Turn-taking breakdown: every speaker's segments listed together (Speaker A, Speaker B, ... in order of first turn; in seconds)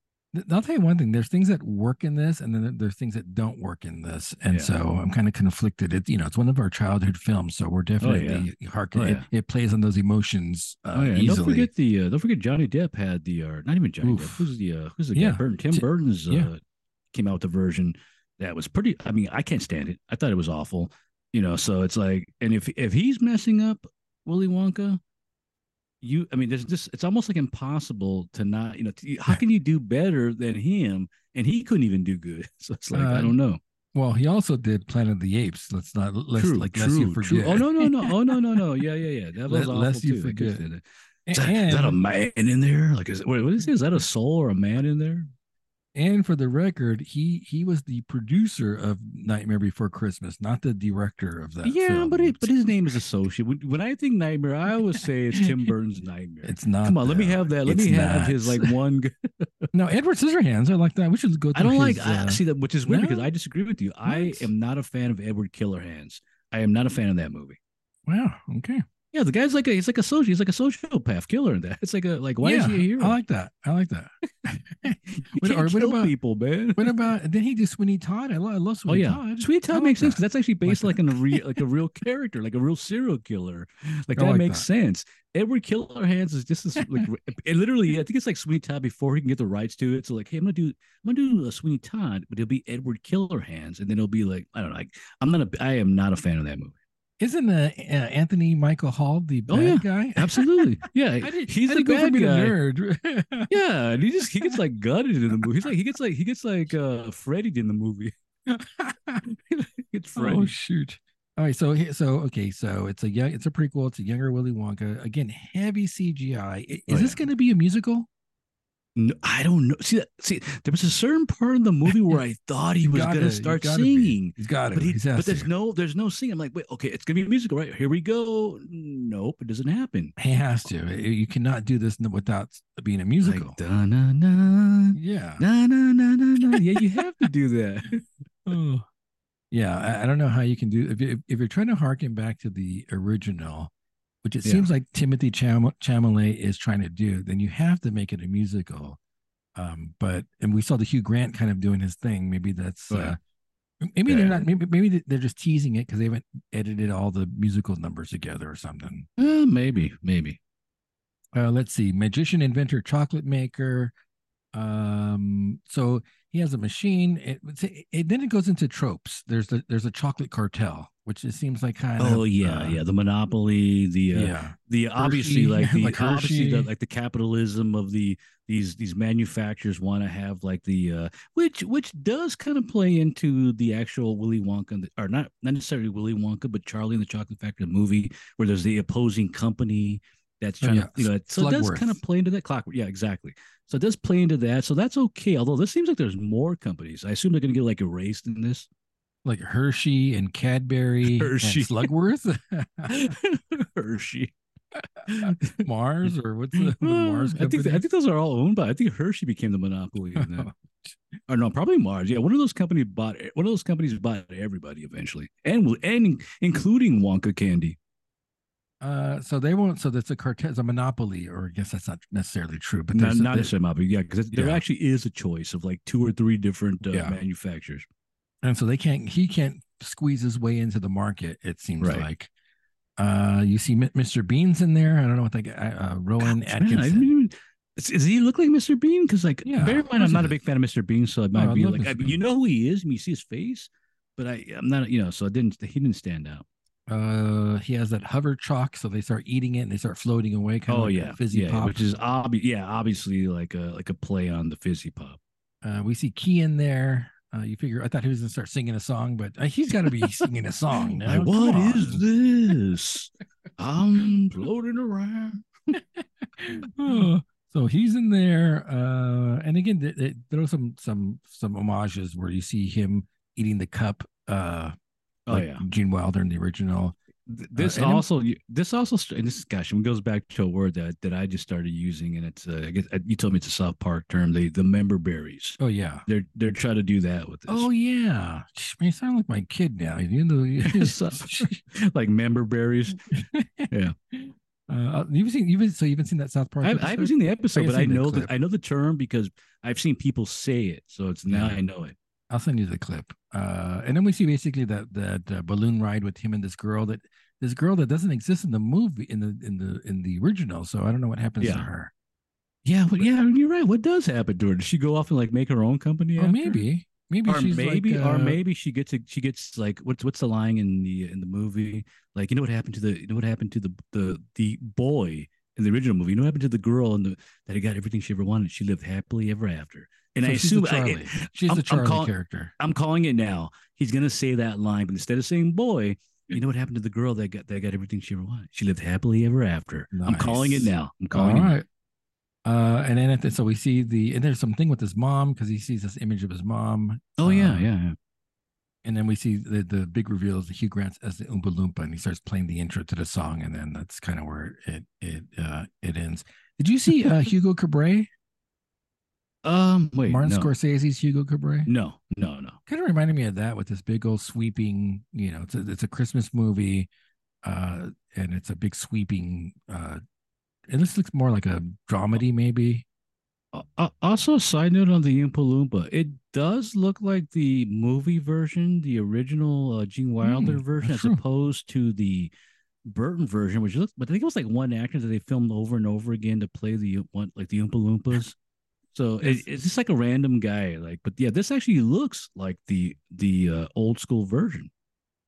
Speaker A: 0.3-11.7, 14.0-14.5, 15.1-16.5, 32.9-33.4, 33.9-38.8, 39.5-40.6, 41.3-42.0, 45.9-52.5, 55.3-55.7, 56.4-58.7, 59.7-63.3, 64.0-64.5, 68.0-68.8, 72.4-76.1, 76.8-81.6, 84.2-84.7, 86.8-87.1, 97.2-103.5, 105.4-105.7, 108.5-109.2, 110.2-118.1, 122.8-125.5, 130.2-133.6, 134.9-135.4, 136.5-136.8, 138.4-138.8, 139.5-143.7, 144.2-149.0, 149.6-153.2, 153.8-159.1, 161.3-163.9, 164.5-172.8, 174.1-176.7, 190.6-192.0, 199.2-203.1, 205.1-207.8, 210.2-211.0, 218.8-223.5, 224.3-224.6, 226.9-227.2, 228.4-232.3, 233.0-237.1, 239.4-240.3, 241.3-242.2, 246.9-251.8, 255.6-262.0, 265.7-274.7, 275.3-277.0, 277.6-278.0, 285.6-286.0, 287.5-291.6, 293.1-298.3, 301.3-301.6, 302.3-311.9, 316.2-318.4, 330.2-332.5, 339.9-341.6, 342.4-347.7, 348.8-358.1, 360.1-361.7, 362.7-366.9, 367.4-370.0, 370.7-372.9, 380.2-381.2, 389.2-389.5
Speaker B: 8.0-9.2, 10.9-16.6, 17.1-25.0, 26.0-33.6, 36.4-45.3, 51.6-59.7, 61.5-67.6, 69.1-73.2, 75.0-77.0, 78.9-96.7, 99.5-102.5, 103.5-108.1, 109.2-110.5, 116.9-117.2, 119.0-130.1, 133.2-138.1, 144.4-144.7, 152.9-153.2, 154.1-154.4, 159.2-160.4, 172.0-198.7, 201.0-201.9, 202.9-204.3, 205.1-205.6, 206.5-210.5, 211.3-217.8, 222.9-227.8, 231.8-232.1, 236.2-246.4, 250.7-255.2, 261.0-265.8, 275.3-275.6, 277.3-287.7, 290.6-293.2, 293.7-293.9, 296.6-301.9, 311.4-311.7, 312.6-316.6, 317.3-341.5, 347.2-347.9, 359.4-360.5, 361.6-362.6, 373.5-382.3, 382.9-388.4, 388.9-394.7